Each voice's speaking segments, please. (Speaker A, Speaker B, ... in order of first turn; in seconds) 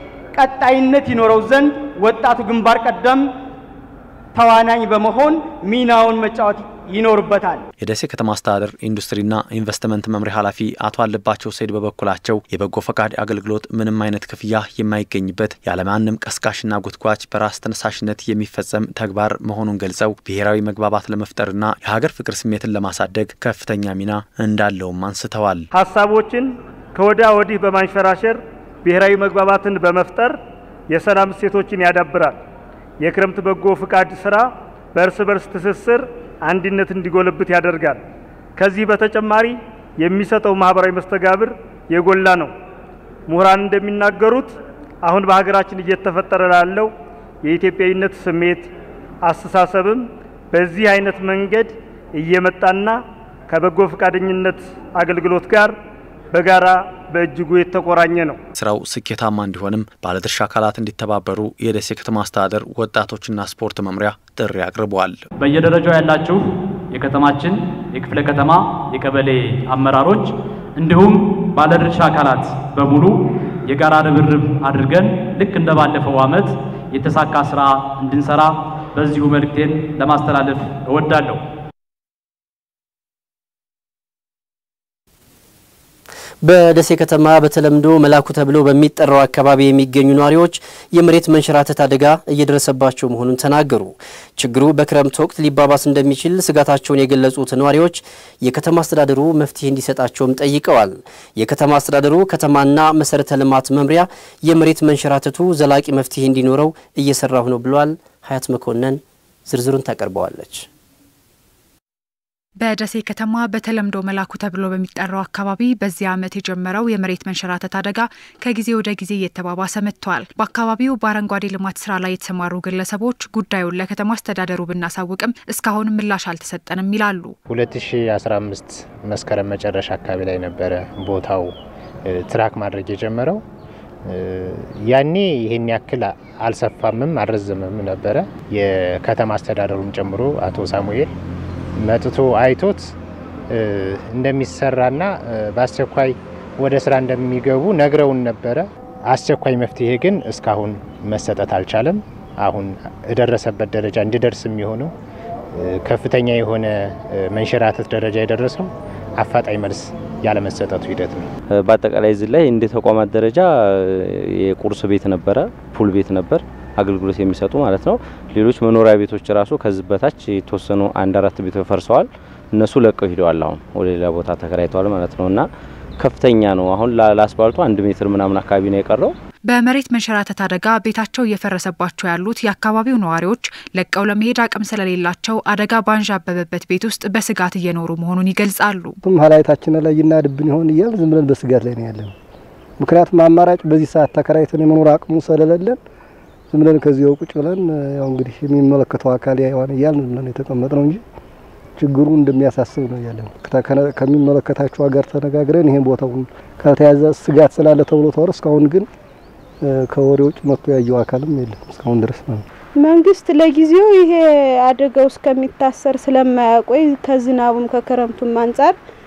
Speaker A: 0.4-3.2, 4.4-7.5
Speaker B: 7.8-25.7, 58.6-65.2
Speaker C: 25.7-30.4, 30.9-32.3, 33.0-34.4, 35.0-38.0, 38.6-42.5, 43.3-44.5, 45.0-46.9, 47.4-48.7, 49.3-53.0, 53.5-55.7, 56.3-58.4
Speaker D: 65.4-81.4
Speaker E: 86.4-110.7
Speaker F: 112.6-127.4, 179.5-188.9
Speaker G: 127.5-131.5, 132.1-133.4, 134.1-141.1, 141.8-143.0, 143.5-154.9, 155.5-161.3
Speaker H: 161.5-175.5, 176.0-179.2
Speaker I: 189.0-192.1, 192.8-195.8, 196.5-201.0, 201.8-208.9, 209.9-212.4
Speaker J: 212.8-218.8